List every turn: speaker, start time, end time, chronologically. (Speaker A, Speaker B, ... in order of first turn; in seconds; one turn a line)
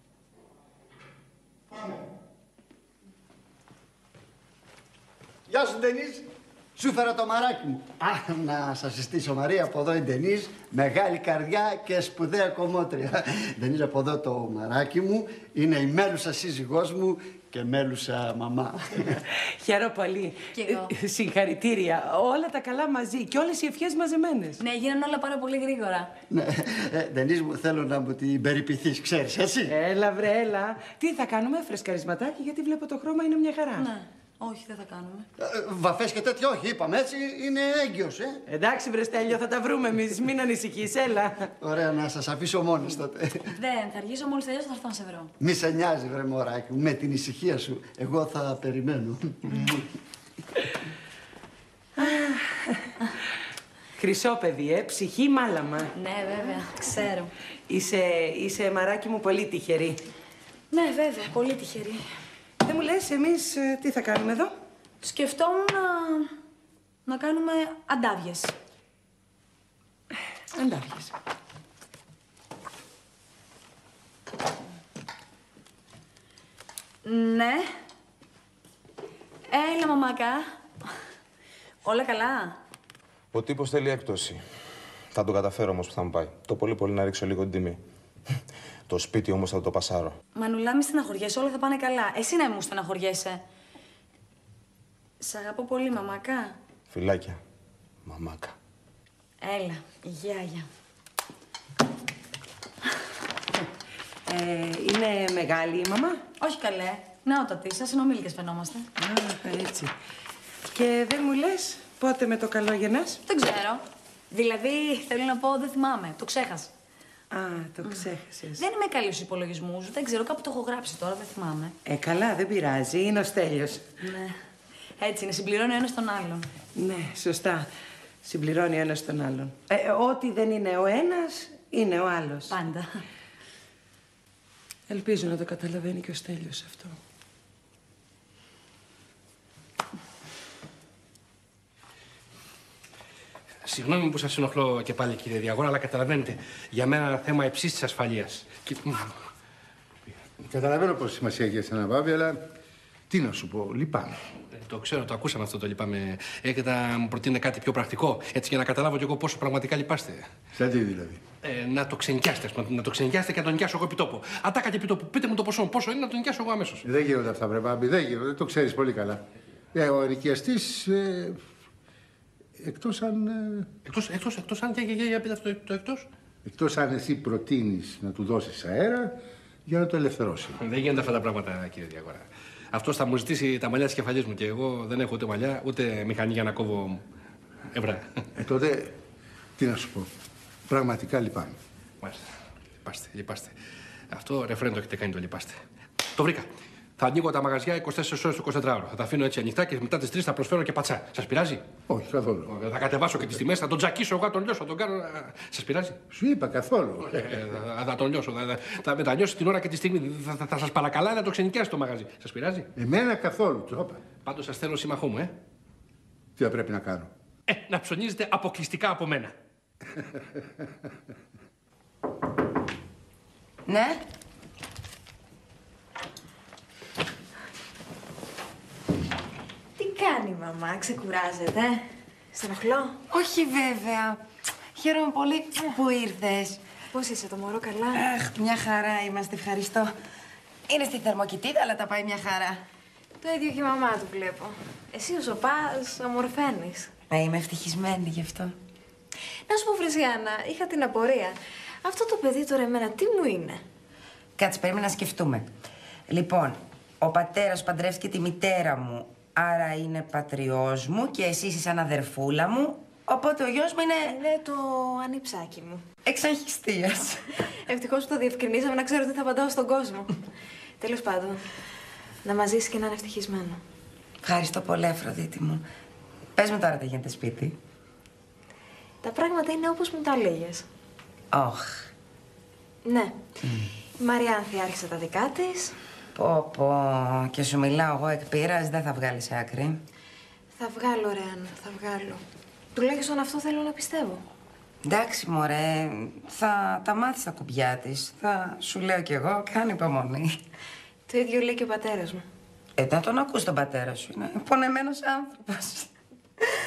Speaker A: 5.5-19.2
Speaker B: 19.4-24.6
Speaker C: 20.5-20.9
Speaker C: 24.6-26.1
Speaker A: 26.3-29.7
Speaker B: 29.7-33.9
Speaker C: 33.8-35.2
Speaker A: 35.4-38.4
Speaker B: 38.5-41.5
Speaker A: 41.6-43.5
Speaker C: 43.6-45.3
Speaker A: 45.4-49.8
Speaker B: 52.0-52.9
Speaker B: 54.0-55.9
Speaker C: 55.9-57.3
Speaker B: 57.7-60.0
Speaker C: 60.7-62.0
Speaker B: 62.6-64.5
Speaker C: 65.0-66.3
Speaker C: 67.1-68.5
Speaker B: 70.5-71.1
Speaker C: 77.0-77.7
Speaker C: 79.5-80.6
Speaker C: 81.8-82.6
Speaker D: 83.3-84.4
Speaker D: 85.1-87.8
Speaker D: 88.9-90.2
Speaker C: 90.4-93.4
Speaker C: 95.2-96.6
Speaker D: 96.9-97.4
Speaker D: 98.1-98.5
Speaker C: 99.4-100.7
Speaker B: 104.2-106.2
Speaker C: 106.4-108.9
Speaker B: 109.0-109.9
Speaker B: 110.7-113.2
Speaker C: 113.2-116.7
Speaker B: 117.3-118.6
Speaker C: 117.8-121.7
Speaker B: 121.8-124.0
Speaker C: 124.0-124.4
Speaker C: 125.0-126.5
Speaker B: 126.8-127.7
Speaker B: 128.2-132.5
Speaker C: 132.5-133.0
Speaker B: 134.9-137.0
Speaker E: 143.6-149.1
Speaker F: 150.4-152.4
Speaker F: 153.1-154.2
Speaker E: 154.5-160.2
Speaker F: 160.6-161.2
Speaker E: 161.4-166.8
Speaker F: 166.8-169.2
Speaker F: 169.7-171.4
Speaker F: 172.6-173.7
Speaker E: 173.8-176.1
Speaker F: 176.4-179.1
Speaker F: 179.7-180.6
Speaker E: 180.6-187.0
Speaker E: 187.7-188.1
Speaker F: 188.4-188.9
Speaker F: 189.6-190.1
Speaker F: 190.7-191.6
Speaker E: 192.8-193.5
Speaker E: 194.1-195.6
Speaker E: 196.1-201.7
Speaker F: 201.9-202.5
Speaker E: 202.5-206.0
Speaker F: 206.1-207.5
Speaker E: 207.0-212.7
Speaker F: 212.8-214.0
Speaker E: 214.2-215.3
Speaker F: 216.4-217.1
Speaker E: 217.5-219.3
Speaker G: 223.7-224.0
Speaker H: 229.8-231.8
Speaker H: 232.3-233.0
Speaker G: 233.1-234.2
Speaker G: 234.8-236.6
Speaker H: 236.9-238.1
Speaker G: 237.9-239.9
Speaker G: 240.7-242.6
Speaker H: 243.2-246.9
Speaker G: 247.1-248.5
Speaker H: 249.5-253.6
Speaker G: 254.4-255.5
Speaker G: 256.1-264.2
Speaker H: 264.0-265.9
Speaker G: 266.1-267.2
Speaker H: 267.7-270.1
Speaker H: 270.8-271.4
Speaker H: 272.2-273.6
Speaker G: 274.2-275.6
Speaker G: 276.4-277.5
Speaker H: 279.0-280.6
Speaker G: 281.3-281.7
Speaker H: 282.9-283.2
Speaker H: 284.0-285.7
Speaker G: 286.1-289.8
Speaker H: 290.5-292.2
Speaker H: 292.7-294.2
Speaker G: 294.8-300.4
Speaker H: 301.1-302.2
Speaker G: 302.8-305.9